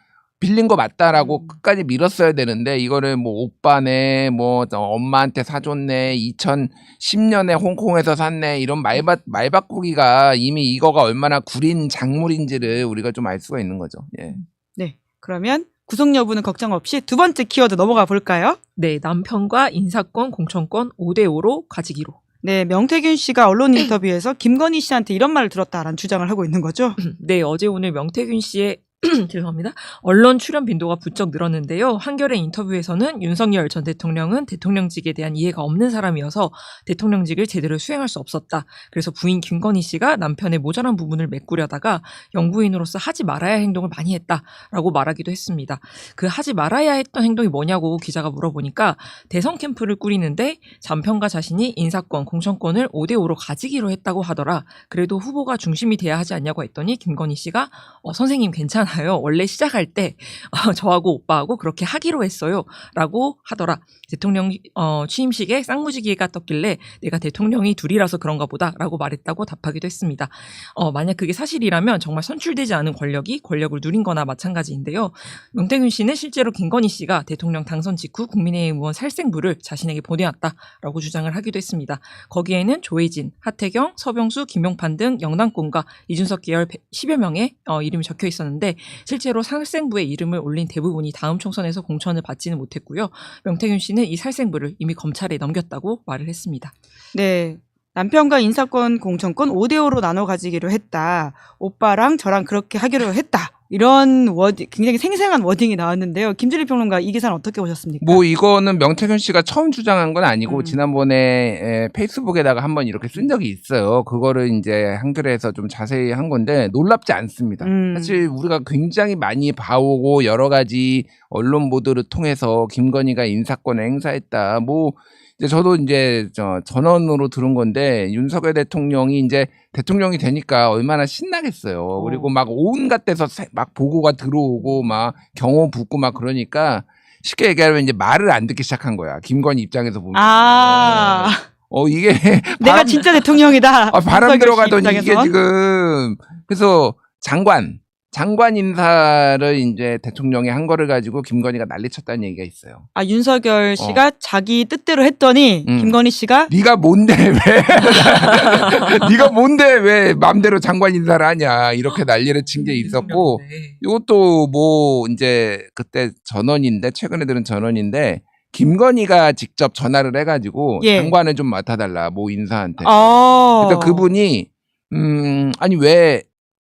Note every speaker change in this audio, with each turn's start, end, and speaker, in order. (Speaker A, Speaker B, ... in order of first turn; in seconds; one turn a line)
Speaker A: 0.4-14.4
Speaker B: 1.1-1.6
Speaker B: 14.8-18.6
Speaker C: 18.8-22.2
Speaker B: 22.4-27.0
Speaker C: 27.0-96.7
Speaker B: 97.1-108.2
Speaker A: 108.0-143.3
Speaker B: 110.5-110.8
Speaker B: 117.6-118.2
Speaker B: 131.9-132.3
Speaker B: 134.6-135.0
Speaker B: 140.1-141.4
Speaker B: 142.6-145.3
Speaker A: 143.9-152.9
Speaker B: 152.9-156.5
Speaker A: 153.8-154.0
Speaker A: 155.7-156.0
Speaker A: 156.5-176.2
Speaker C: 158.3-159.1
Speaker B: 162.6-163.2
Speaker C: 162.8-163.8
Speaker B: 170.8-171.2
Speaker B: 172.8-174.1